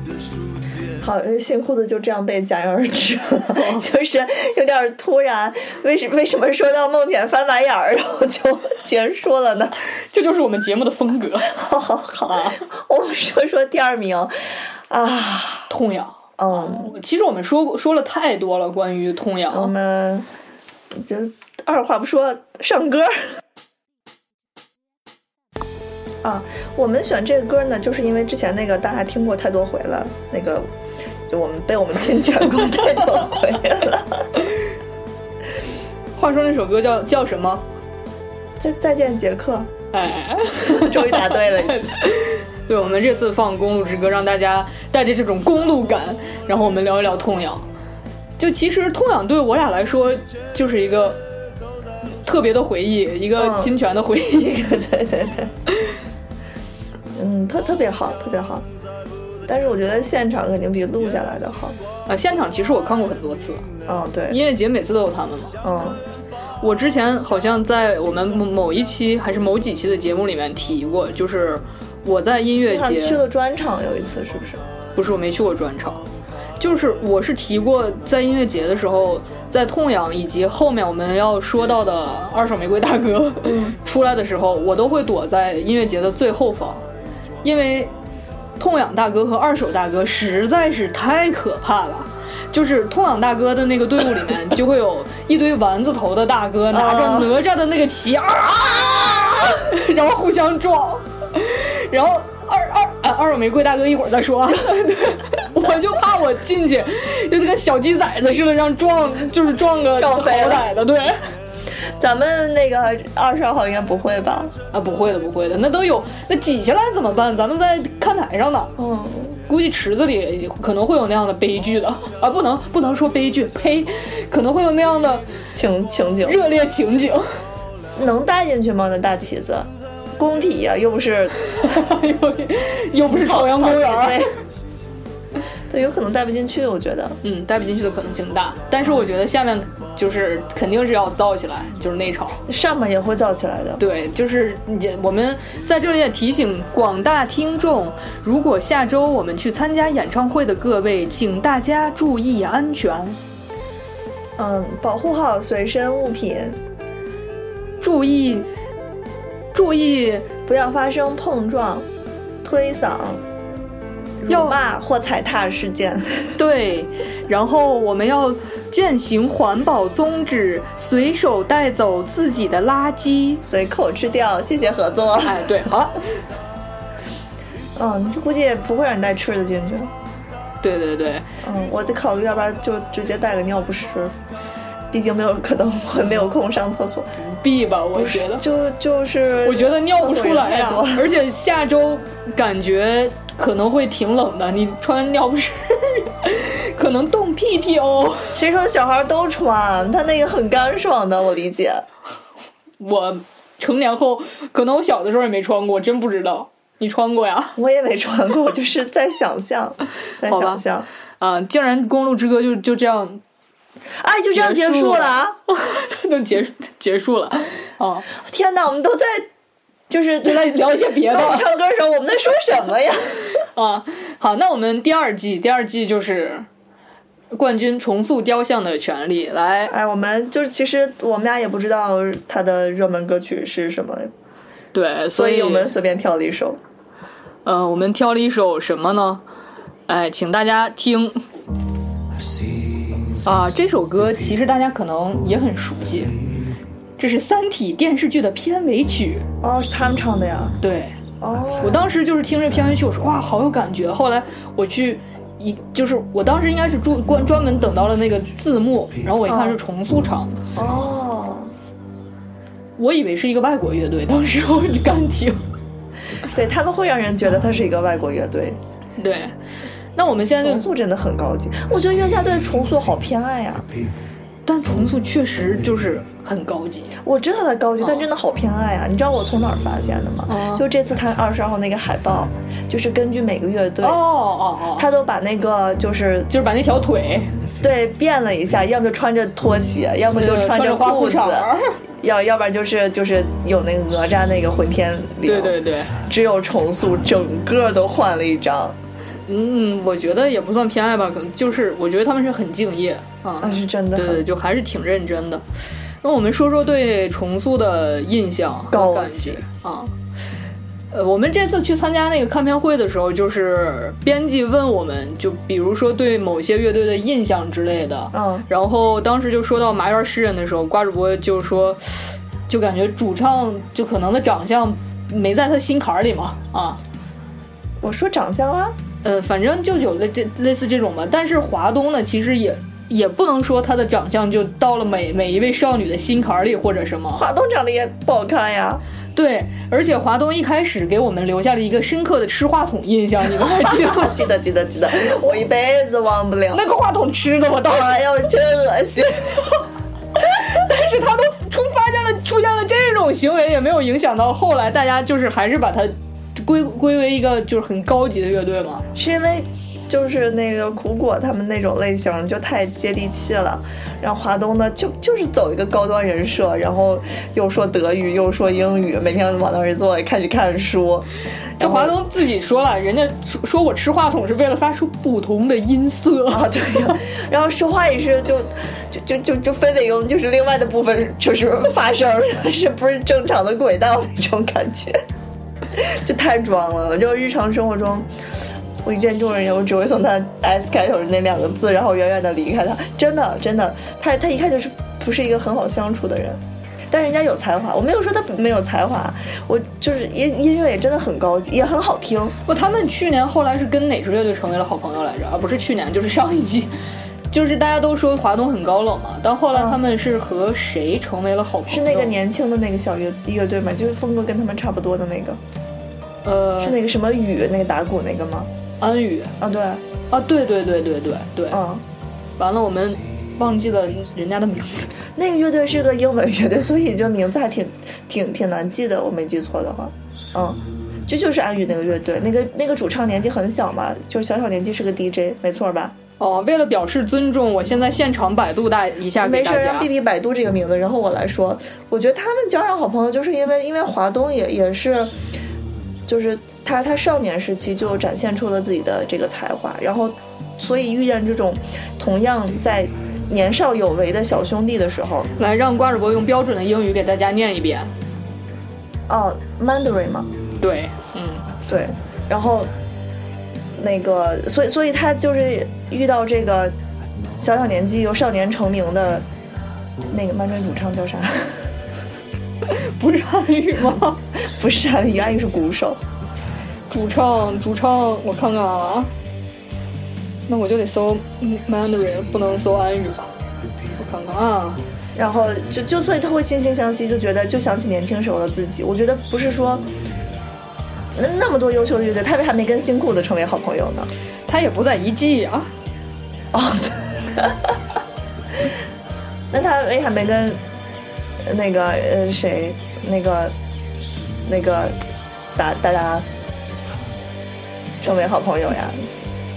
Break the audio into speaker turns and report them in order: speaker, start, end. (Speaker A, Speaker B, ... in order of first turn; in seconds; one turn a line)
Speaker A: 1.0-9.7
Speaker B: 3.5-3.9
Speaker B: 10.1-11.6
Speaker A: 11.5-15.7
Speaker B: 12.2-12.6
Speaker B: 15.7-19.7
Speaker A: 16.4-16.9
Speaker A: 19.5-20.3
Speaker A: 20.9-23.3
Speaker A: 26.2-30.7
Speaker A: 31.3-34.3
Speaker B: 36.1-37.6
Speaker A: 38.6-39.7
Speaker B: 39.9-47.6
Speaker A: 40.6-41.9
Speaker B: 48.4-51.2
Speaker B: 52.2-54.6
Speaker A: 53.4-53.7
Speaker A: 54.3-55.5
Speaker A: 57.1-58.6
Speaker A: 59.5-61.8
Speaker B: 62.0-63.6
Speaker A: 63.9-64.4
Speaker B: 64.3-65.6
Speaker A: 65.6-66.0
Speaker B: 66.6-73.2
Speaker A: 72.7-74.6
Speaker B: 74.9-76.0
Speaker B: 76.6-86.8
Speaker A: 83.4-83.8
Speaker B: 87.4-87.9
Speaker B: 88.6-111.2
Speaker A: 96.7-97.3
Speaker A: 109.9-110.7
Speaker A: 112.0-114.5
Speaker B: 114.7-118.7
Speaker A: 118.8-119.4
Speaker B: 119.5-125.3
Speaker A: 125.5-126.4
Speaker B: 126.2-127.3
Speaker A: 128.0-131.3
Speaker B: 131.6-134.3
Speaker A: 133.1-134.3
Speaker A: 135.7-137.2
Speaker B: 137.2-142.4
Speaker A: 142.5-143.8
Speaker B: 143.8-153.2
Speaker A: 154.4-156.6
Speaker B: 157.8-158.5
Speaker B: 159.5-160.3
Speaker A: 160.5-161.8
Speaker A: 162.4-163.2
Speaker A: 164.2-166.3
Speaker B: 164.3-164.6
Speaker B: 166.3-173.4
Speaker A: 173.4-175.6
Speaker B: 175.2-176.1
Speaker A: 177.8-179.9
Speaker B: 180.6-181.2
Speaker A: 181.4-184.1
Speaker A: 184.9-187.1
Speaker B: 187.2-188.4
Speaker A: 187.9-191.1
Speaker B: 189.4-198.4
Speaker A: 198.3-201.8
Speaker B: 202.8-207.6
Speaker A: 207.6-210.9
Speaker B: 210.2-210.6
Speaker B: 211.2-213.2
Speaker A: 214.0-215.4
Speaker B: 214.3-218.1
Speaker A: 218.1-219.3
Speaker A: 219.9-223.3
Speaker B: 220.2-221.5
Speaker B: 223.4-226.5
Speaker B: 227.3-229.7
Speaker A: 229.7-234.1
Speaker B: 234.7-235.7
Speaker A: 235.1-236.6
Speaker B: 237.4-239.2
Speaker B: 239.9-241.2
Speaker B: 243.2-246.1
Speaker B: 247.0-249.2
Speaker A: 249.4-250.5
Speaker B: 250.6-251.0
Speaker A: 251.2-251.9
Speaker B: 251.6-260.4
Speaker A: 259.2-259.6
Speaker A: 260.5-261.5
Speaker B: 262.8-265.4
Speaker A: 266.3-268.6
Speaker B: 269.0-269.3
Speaker B: 269.9-270.7
Speaker A: 270.4-273.7
Speaker B: 274.4-276.9
Speaker A: 277.0-284.0
Speaker B: 277.8-278.1
Speaker B: 280.3-280.6
Speaker B: 283.8-284.9
Speaker A: 284.8-286.3
Speaker B: 286.3-287.3
Speaker A: 287.6-295.6
Speaker B: 290.1-291.7
Speaker B: 295.2-295.9
Speaker A: 296.1-298.8
Speaker B: 299.3-305.4
Speaker A: 303.4-304.2
Speaker B: 306.0-309.9
Speaker A: 308.7-309.4
Speaker B: 310.9-326.8
Speaker A: 318.1-318.4
Speaker A: 327.8-328.8
Speaker B: 329.0-337.2
Speaker A: 337.1-338.8
Speaker B: 339.1-344.2
Speaker A: 343.5-346.6
Speaker B: 346.5-348.0
Speaker A: 347.6-349.6
Speaker B: 350.1-358.9
Speaker A: 358.9-372.0
Speaker B: 371.6-377.0
Speaker A: 376.3-385.0
Speaker A: 385.7-388.1
Speaker A: 388.8-402.3
Speaker B: 402.4-406.7
Speaker B: 407.3-412.2
Speaker A: 409.5-409.8
Speaker A: 411.7-415.4
Speaker B: 416.2-416.8
Speaker A: 416.6-418.5
Speaker B: 418.8-419.3
Speaker A: 419.4-419.8
Speaker B: 420.1-421.6
Speaker A: 421.5-421.8
Speaker B: 422.4-424.9
Speaker A: 425.1-435.9
Speaker B: 436.2-439.9
Speaker A: 439.2-445.1
Speaker A: 446.1-455.3
Speaker B: 455.4-457.9
Speaker A: 459.1-460.3
Speaker B: 460.6-461.5
Speaker A: 461.7-462.7
Speaker A: 463.8-466.7
Speaker A: 467.4-469.2
Speaker A: 470.1-471.7
Speaker B: 472.6-474.2
Speaker A: 474.3-476.0
Speaker B: 476.9-479.1
Speaker B: 480.5-483.3
Speaker B: 483.9-484.8
Speaker A: 485.1-489.9
Speaker A: 491.1-494.1
Speaker B: 494.5-495.7
Speaker A: 496.5-497.8
Speaker A: 499.5-500.6
Speaker A: 501.4-503.5
Speaker A: 504.4-505.0
Speaker A: 505.5-506.2
Speaker A: 508.0-509.1